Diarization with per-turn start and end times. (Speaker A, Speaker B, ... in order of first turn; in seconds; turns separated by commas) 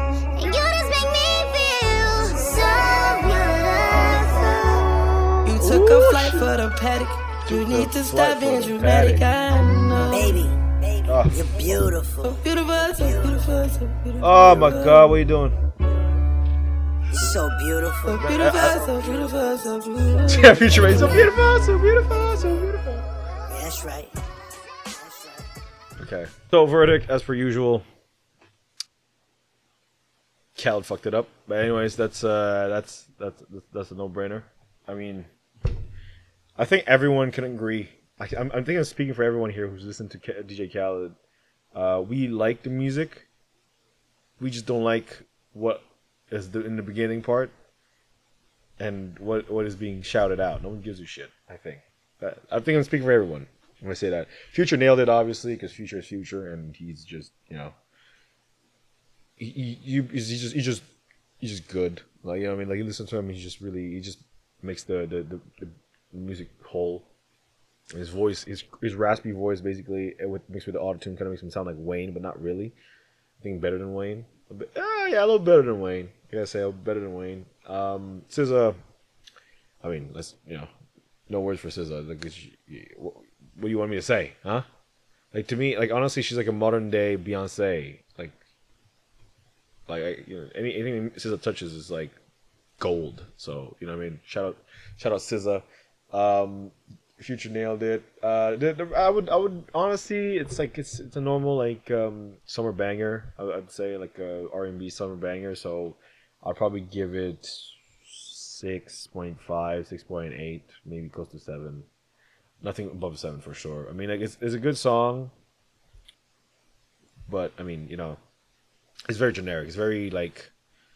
Speaker A: 0.3-5.3, Speaker B: 5.4-10.4, Speaker C: 5.6-6.5, Speaker C: 7.5-9.3, Speaker D: 10.1-13.5, Speaker C: 11.1-11.9, Speaker B: 12.2-15.2, Speaker C: 14.2-15.6, Speaker D: 17.1-19.1, Speaker B: 18.0-21.1, Speaker C: 18.1-18.8, Speaker C: 20.3-23.1, Speaker D: 20.7-21.4, Speaker D: 23.5-24.1, Speaker D: 24.9-25.4, Speaker C: 26.0-27.9, Speaker C: 30.6-35.3, Speaker C: 36.6-41.2, Speaker C: 41.8-43.3, Speaker C: 44.4-47.5, Speaker C: 48.8-57.8, Speaker C: 59.4-60.8, Speaker C: 61.4-67.1, Speaker C: 67.9-72.8, Speaker C: 73.4-78.8, Speaker C: 79.8-80.7, Speaker C: 81.3-84.7, Speaker C: 85.3-88.4, Speaker C: 89.9-92.2, Speaker C: 92.8-111.9, Speaker C: 112.6-115.3, Speaker C: 117.3-118.2, Speaker C: 119.1-120.5